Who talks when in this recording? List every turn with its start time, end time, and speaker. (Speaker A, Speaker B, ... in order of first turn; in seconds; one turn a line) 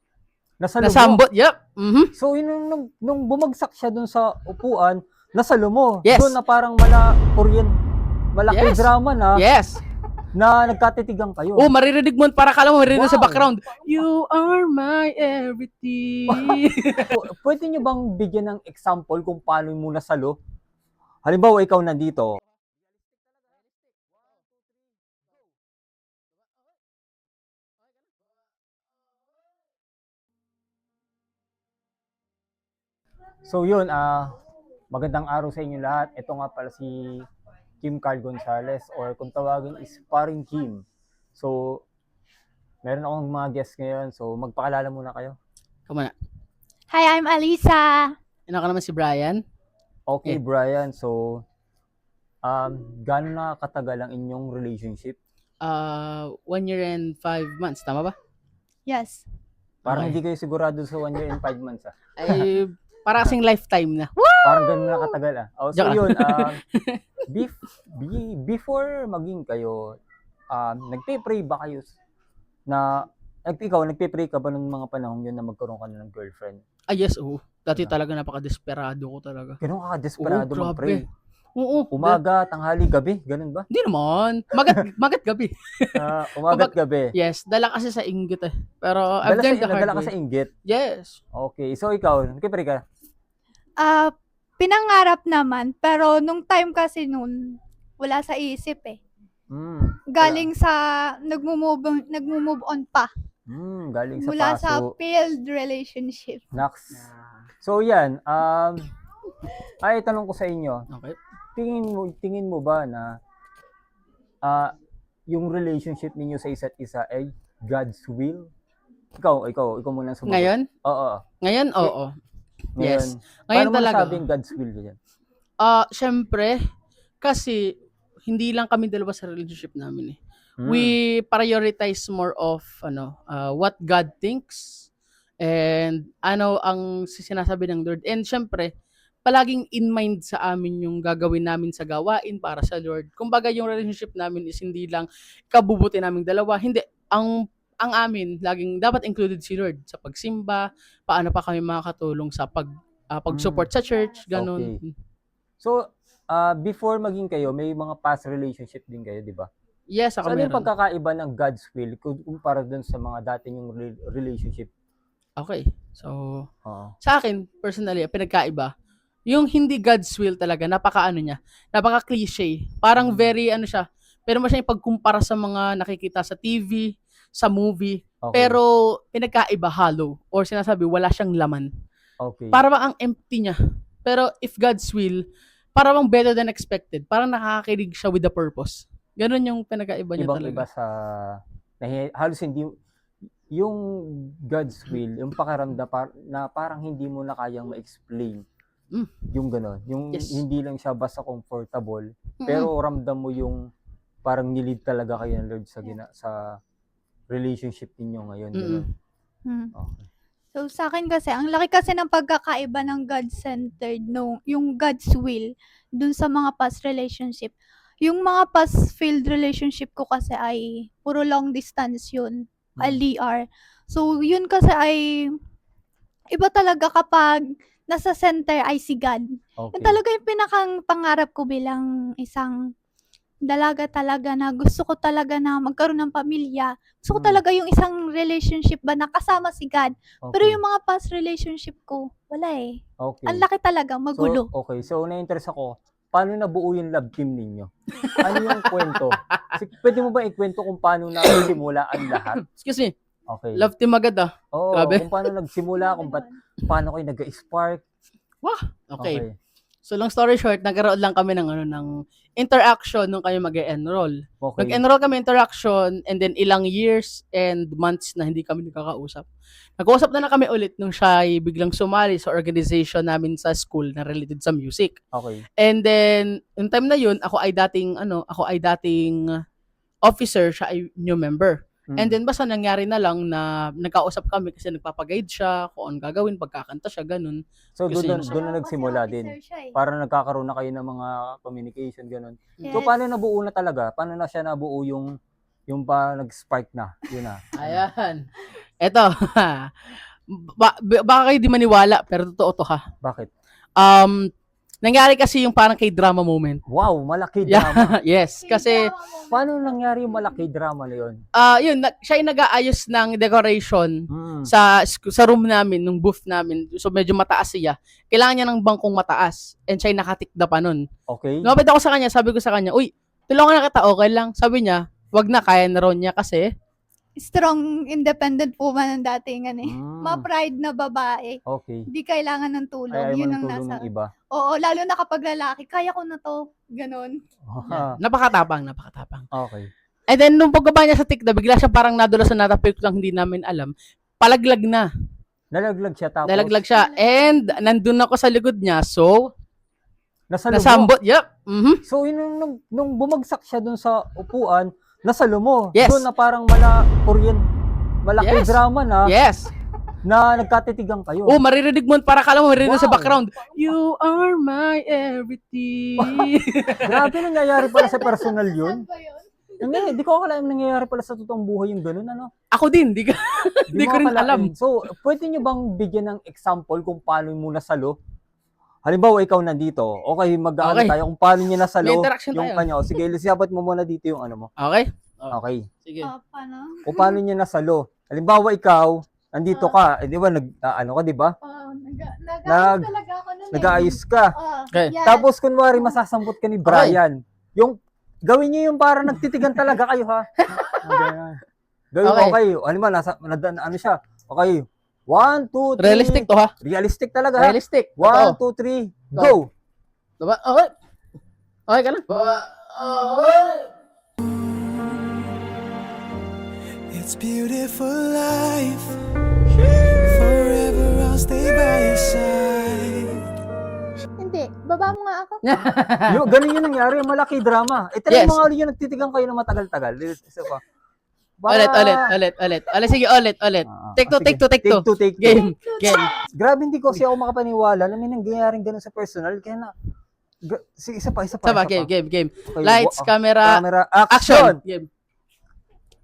Speaker A: 0.6-1.2
Speaker B: 0.8-2.1
Speaker A: 2.2-7.7
Speaker B: 6.0-6.4
Speaker A: 8.3-9.4
Speaker B: 8.5-9.8
Speaker A: 10.3-11.7
Speaker B: 11.6-17.2
Speaker A: 12.9-13.5
Speaker A: 16.3-20.4
Speaker A: 21.2-22.4
Speaker A: 33.5-34.4
Speaker A: 34.9-37.3
Speaker A: 37.8-40.8
Speaker A: 41.4-41.8
Speaker A: 42.8-45.4
Speaker C: 46.9-48.1
Speaker B: 48.5-49.4
Speaker A: 50.1-51.4
Speaker A: 52.5-55.2
Speaker B: 55.6-58.1
Speaker C: 58.9-59.2
Speaker A: 59.9-62.4
Speaker B: 59.9-60.2
Speaker B: 62.2-64.8
Speaker A: 64.4-66.6
Speaker B: 65.8-67.0
Speaker A: 67.3-69.9
Speaker A: 70.5-71.9
Speaker A: 72.7-76.6
Speaker B: 76.9-79.6
Speaker A: 79.6-81.0
Speaker B: 80.2-81.0
Speaker B: 81.6-82.2
Speaker A: 81.9-83.7
Speaker B: 83.7-90.1
Speaker A: 86.0-87.1
Speaker A: 89.3-90.5
Speaker B: 90.7-91.2
Speaker A: 91.3-92.8
Speaker C: 93.8-99.0
Speaker A: 99.5-100.5
Speaker C: 100.1-103.1
Speaker A: 103.5-104.9
Speaker C: 104.2-106.5
Speaker A: 106.5-107.1
Speaker A: 107.6-108.9
Speaker A: 109.8-110.8
Speaker B: 110.9-111.2
Speaker A: 111.6-113.2
Speaker A: 114.4-114.7
Speaker A: 115.3-118.5
Speaker A: 119.2-121.2
Speaker B: 120.3-120.7
Speaker B: 121.4-122.1
Speaker A: 122.8-125.0
Speaker B: 122.8-124.2
Speaker B: 125.6-126.6
Speaker B: 127.2-127.7
Speaker B: 128.3-134.9
Speaker A: 130.6-130.9
Speaker B: 135.4-138.7
Speaker B: 139.3-154.9
Speaker A: 153.3-153.7
Speaker A: 154.3-154.8
Speaker A: 155.6-159.5
Speaker B: 159.9-160.7
Speaker A: 160.2-164.7
Speaker B: 165.4-166.5
Speaker A: 166.7-167.0
Speaker B: 167.0-168.7
Speaker B: 169.3-181.7
Speaker A: 173.0-173.3
Speaker A: 178.2-178.6
Speaker A: 182.2-182.6
Speaker B: 182.5-185.2
Speaker B: 185.8-190.7
Speaker A: 190.2-192.7
Speaker A: 193.6-198.4
Speaker B: 198.9-199.2
Speaker A: 199.3-203.6
Speaker B: 200.1-200.4
Speaker B: 202.4-202.7
Speaker A: 204.2-206.6
Speaker A: 207.3-208.9
Speaker B: 208.5-208.9
Speaker C: 209.5-209.7
Speaker A: 209.8-210.1
Speaker C: 210.6-217.5
Speaker C: 218.0-225.3
Speaker C: 226.3-232.5
Speaker A: 229.6-230.0
Speaker C: 233.5-244.5
Speaker A: 237.1-237.4
Speaker A: 240.2-240.6
Speaker A: 243.0-243.4
Speaker A: 244.2-252.4
Speaker B: 248.0-249.4
Speaker B: 251.2-251.5
Speaker B: 252.0-252.9
Speaker A: 253.3-253.7
Speaker B: 253.6-255.1
Speaker A: 254.5-257.8
Speaker C: 255.8-256.3
Speaker B: 258.4-259.2
Speaker A: 259.0-259.3
Speaker B: 259.9-269.2
Speaker A: 264.4-264.8
Speaker B: 269.8-275.0
Speaker A: 275.1-275.4
Speaker B: 275.6-279.3
Speaker B: 280.1-288.3
Speaker A: 281.9-282.2
Speaker A: 287.8-295.1
Speaker C: 288.2-289.7
Speaker C: 292.6-293.0
Speaker A: 295.7-297.8
Speaker B: 297.6-298.2
Speaker B: 298.8-299.7
Speaker B: 300.3-302.8
Speaker A: 303.0-303.3
Speaker B: 303.8-304.3
Speaker B: 304.8-306.6
Speaker A: 306.7-307.9
Speaker B: 307.5-308.9
Speaker C: 308.4-309.4
Speaker A: 309.3-311.2
Speaker B: 311.4-320.9
Speaker A: 314.1-314.5
Speaker A: 321.1-321.6
Speaker B: 321.4-326.5
Speaker C: 327.2-331.4
Speaker A: 329.6-330.3
Speaker A: 331.5-331.9
Speaker C: 331.9-337.1
Speaker A: 332.9-334.1
Speaker A: 337.5-338.0
Speaker B: 337.7-339.3
Speaker A: 339.3-339.7
Speaker B: 340.1-344.9
Speaker A: 345.5-346.6
Speaker B: 346.3-349.3
Speaker C: 346.7-347.6
Speaker A: 350.3-350.9
Speaker B: 350.5-351.8
Speaker A: 351.9-357.4
Speaker B: 355.7-356.1
Speaker A: 358.0-359.1
Speaker B: 358.2-359.5
Speaker A: 360.0-361.4
Speaker B: 361.3-367.1
Speaker A: 362.6-363.2
Speaker A: 366.0-366.3
Speaker A: 366.8-368.9
Speaker C: 367.6-369.9
Speaker A: 369.6-372.3
Speaker B: 372.5-374.5
Speaker A: 373.7-378.0
Speaker A: 378.9-384.5
Speaker B: 380.6-381.0
Speaker B: 381.8-382.7
Speaker B: 384.6-386.1
Speaker A: 385.3-385.7
Speaker C: 386.0-387.2
Speaker A: 386.9-391.4
Speaker C: 391.4-395.2
Speaker A: 392.5-392.9
Speaker A: 393.5-394.3
Speaker A: 395.0-401.4
Speaker B: 396.7-397.0
Speaker B: 400.4-401.1
Speaker A: 401.9-409.5
Speaker B: 402.0-402.4
Speaker B: 405.8-406.5
Speaker B: 407.4-408.4
Speaker B: 410.2-410.7
Speaker B: 411.7-413.7
Speaker D: 416.9-419.0
Speaker D: 419.8-423.2
Speaker C: 424.2-425.7
Speaker B: 425.4-426.2
Speaker A: 426.1-430.6
Speaker B: 428.1-428.4
Speaker A: 431.4-432.1
Speaker B: 431.5-436.1
Speaker A: 433.7-439.7
Speaker C: 435.4-436.1
Speaker A: 440.4-441.9
Speaker B: 441.4-444.9
Speaker A: 442.5-444.6